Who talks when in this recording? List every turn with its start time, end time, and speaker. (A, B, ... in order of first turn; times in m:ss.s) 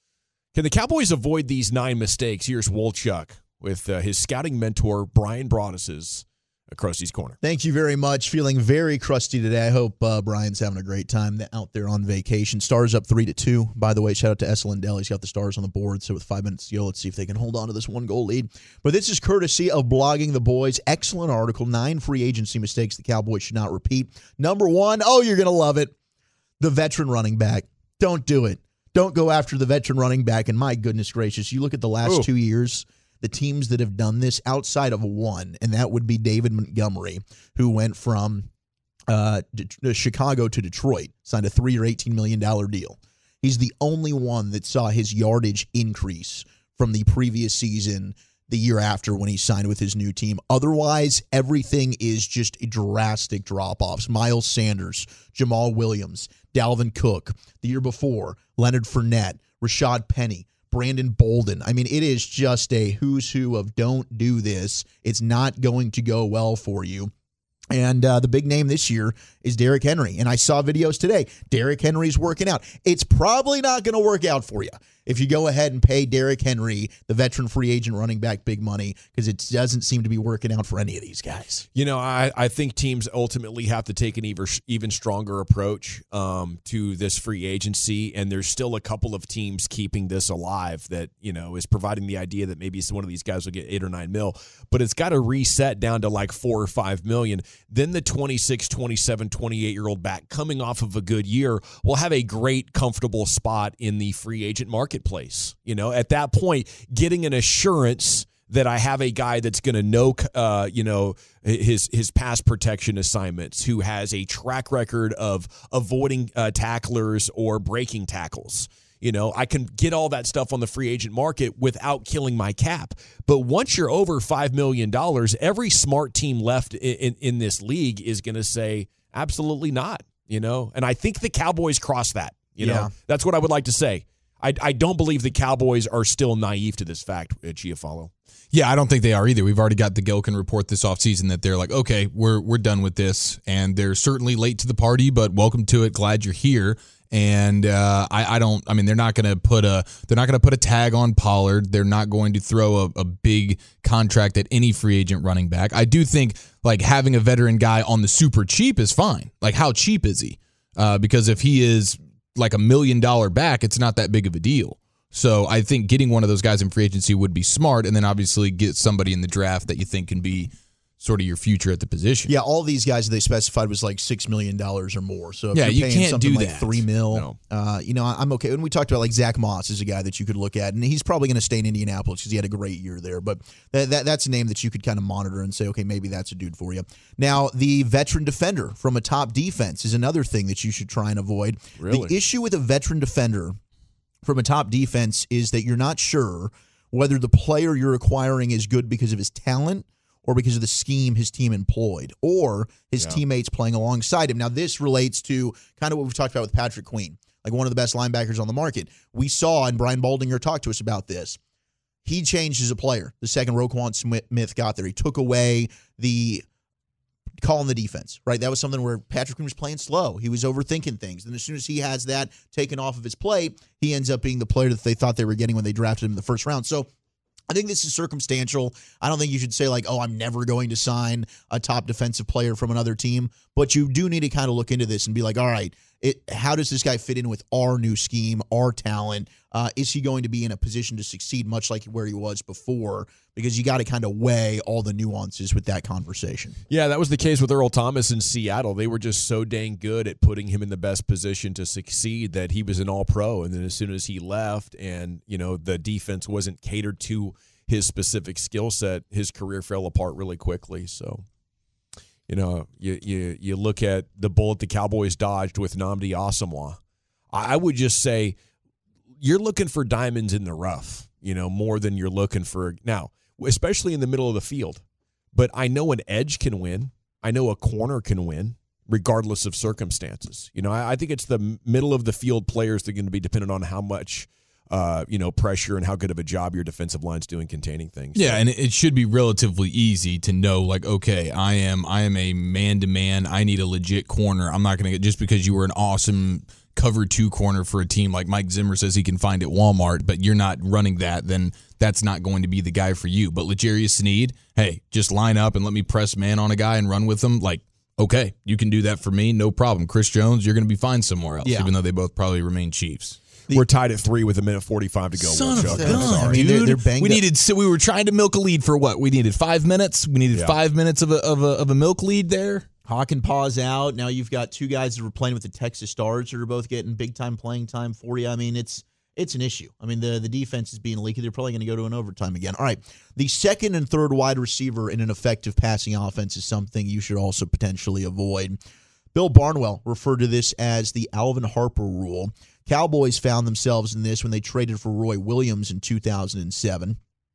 0:00.5-0:07.4 A
0:07.4-0:25.9 B
0:26.6-0:38.5 B
0:39.1-1:07.1 B
1:07.7-1:21.6 B
1:21.7-2:18.1 A
2:12.6-2:12.9 B
2:18.5-2:52.3 C
2:52.3-3:13.6 B
2:55.5-2:56.9 C
3:11.8-3:12.1 A
3:14.2-3:31.4 B
3:32.0-3:36.4 B
3:37.4-3:46.9 B
3:47.5-4:06.6 B
4:06.7-4:21.2 A
4:22.3-4:26.8 A
4:27.3-4:28.4 A
4:29.2-4:34.8 A
4:35.3-4:48.4 A
4:48.1-5:13.2 C
5:11.4-5:11.7 B
5:13.5-5:16.4 A
5:15.2-5:22.6 C
5:15.5-5:17.2 B
5:20.3-5:20.6 A
5:22.8-5:38.6 B
5:39.1-5:47.0 B